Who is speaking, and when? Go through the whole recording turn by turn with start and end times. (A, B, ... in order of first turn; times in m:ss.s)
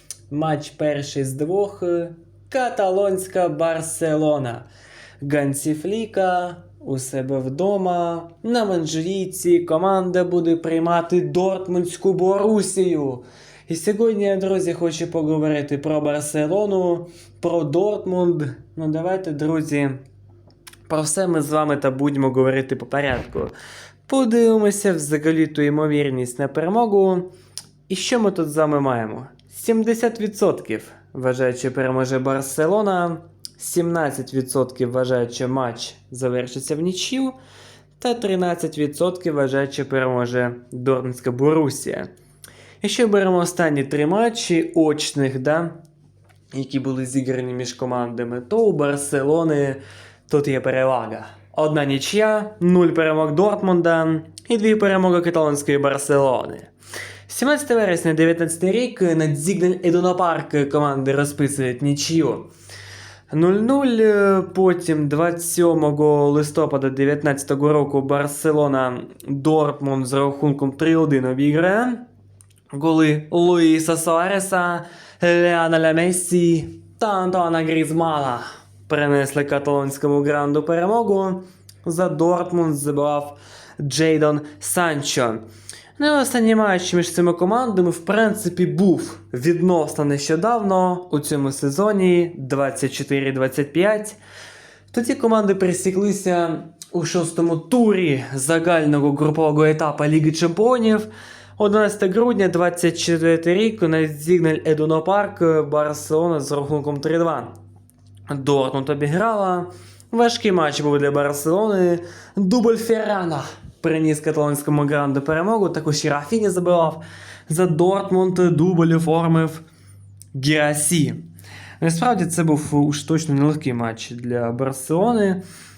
0:00.3-0:04.7 A
0:05.2-0:20.0 A
0:20.9-0:23.5 A
0:24.1-0:27.3 A
0:27.9-0:37.4 A
0:38.0-0:42.1 A
0:42.8-0:45.8 A
0:46.5-0:56.7 A
0:57.3-1:02.5 A
1:03.3-1:12.0 A
1:12.7-1:25.4 A
1:26.0-1:34.2 A
1:34.9-1:47.5 A
1:48.3-1:59.6 A
2:00.3-2:01.2 A
2:01.8-2:05.4 A